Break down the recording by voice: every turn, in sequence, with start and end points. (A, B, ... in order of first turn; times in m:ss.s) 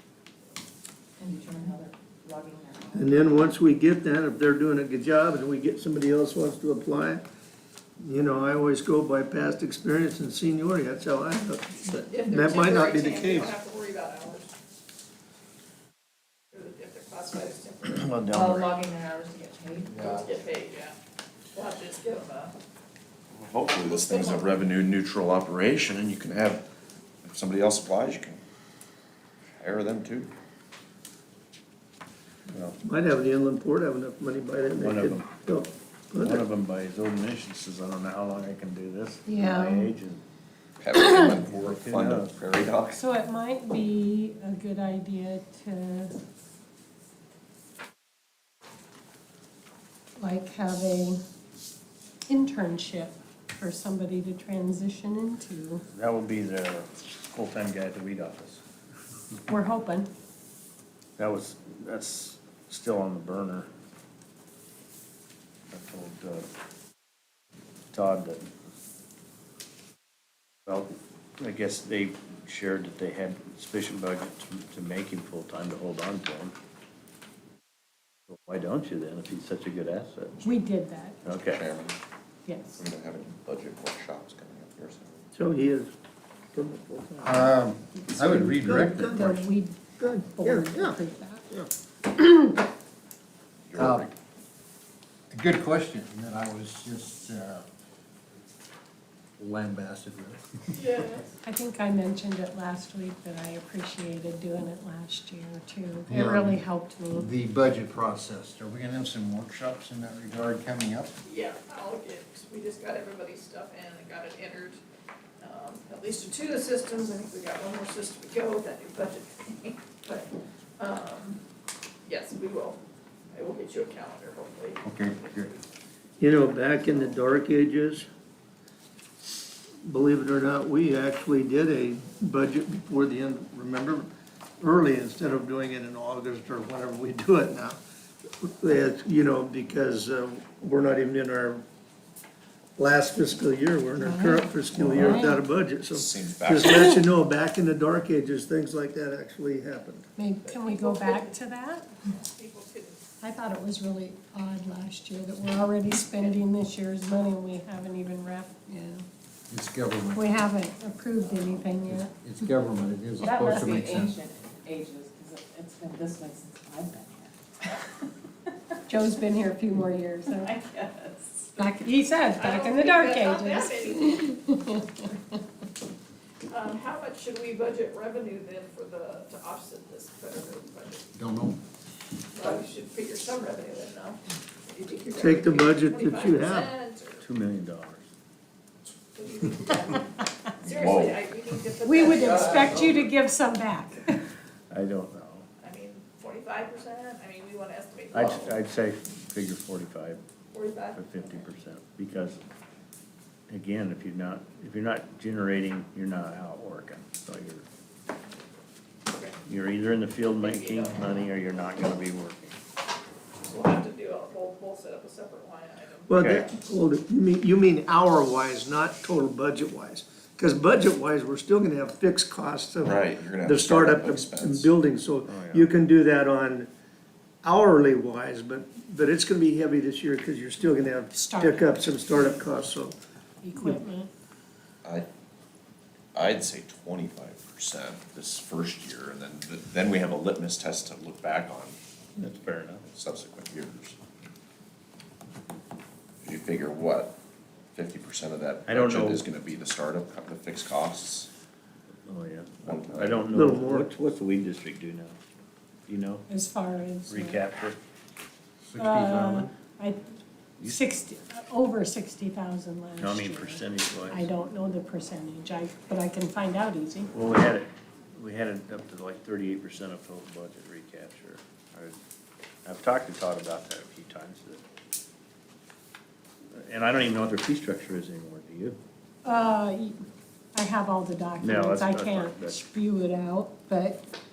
0:01.2-0:03.0 A
0:02.9-0:07.2 B
0:08.0-0:13.6 B
0:12.1-0:14.5 C
0:16.5-0:18.1 C
0:17.9-0:18.7 D
0:18.4-0:20.1 A
0:20.1-0:20.9 C
0:21.5-0:22.5 C
0:23.3-0:26.6 E
0:23.7-0:24.6 C
0:27.2-0:28.4 E
0:29.6-0:30.3 E
0:32.5-0:32.8 D
0:32.8-0:36.5 B
0:34.7-0:35.4 D
0:36.2-0:40.2 D
0:39.2-0:39.9 F
0:40.8-0:43.0 E
0:41.0-0:41.3 F
0:41.3-0:42.3 D
0:42.9-0:46.1 F
0:50.2-0:51.2 F
0:52.3-0:55.8 F
0:55.9-0:58.6 D
0:59.5-1:00.1 F
1:01.2-1:03.7 D
1:05.7-1:06.5 D
1:07.9-1:08.5 D
1:10.6-1:16.5 D
1:18.3-1:20.4 D
1:20.4-1:21.2 F
1:21.2-1:21.6 D
1:21.4-1:22.0 E
1:22.4-1:22.8 F
1:22.7-1:25.3 E
1:25.3-1:25.9 B
1:26.5-1:27.5 B
1:27.2-1:29.3 G
1:28.1-1:31.0 B
1:28.3-1:31.5 F
1:32.1-1:32.6 F
1:33.6-1:34.1 E
1:33.8-1:34.1 G
1:35.3-1:37.6 G
1:39.4-1:40.4 G
1:40.7-1:41.3 C
1:41.4-1:47.3 F
1:46.1-1:51.1 G
1:51.2-1:54.8 C
1:55.4-2:01.4 C
2:02.0-2:02.8 C
2:03.3-2:05.3 C
2:04.8-2:05.5 G
2:06.2-2:08.0 B
2:09.8-2:17.8 B
2:18.4-2:21.6 B
2:22.8-2:30.1 B
2:24.0-2:25.4 F
2:25.9-2:26.9 E
2:30.2-2:31.9 F
2:30.4-2:31.4 C
2:32.0-2:33.0 C
2:33.2-2:39.0 F
2:39.5-2:40.3 G
2:40.1-2:42.5 F
2:41.9-2:44.2 G
2:43.3-2:47.3 A
2:43.3-2:43.7 F
2:48.9-2:50.6 F
2:50.7-2:51.4 A
2:51.6-2:55.2 F
2:52.3-2:54.3 C
2:56.5-3:01.1 C
3:01.1-3:01.6 G
3:02.3-3:07.2 C
3:05.1-3:06.7 B
3:07.2-3:08.0 D
3:09.1-3:13.1 C
3:10.6-3:11.2 E
3:11.8-3:14.2 F
3:14.7-3:15.4 D
3:15.6-3:18.5 C
3:18.1-3:20.2 D
3:20.5-3:21.4 C
3:20.9-3:22.4 D
3:23.5-3:27.6 D
3:29.1-3:29.4 C
3:29.4-3:32.6 D
3:30.4-3:31.1 C
3:33.4-3:36.2 C
3:36.1-3:46.7 B
3:36.2-3:36.5 D
3:42.8-3:44.7 E
3:45.2-3:45.7 D
3:47.4-3:52.9 B
3:51.1-3:52.4 F
3:53.4-3:54.1 F
3:53.5-3:53.8 B
3:56.1-4:01.8 E
4:02.2-4:02.8 D
4:02.9-4:04.0 E
4:06.2-4:07.2 E
4:07.7-4:11.3 E
4:08.6-4:09.2 D
4:12.0-4:15.2 D
4:12.6-4:13.3 E
4:13.3-4:13.9 B
4:15.9-4:16.2 D
4:16.3-4:17.4 F
4:17.1-4:17.8 D
4:18.6-4:19.5 G
4:18.8-4:20.0 F
4:20.6-4:20.9 D
4:20.6-4:27.1 F
4:23.0-4:24.2 D
4:27.1-4:32.0 D
4:32.6-4:34.6 D
4:36.5-4:38.8 D
4:39.2-4:40.0 F
4:40.5-4:44.0 F
4:41.4-4:42.6 D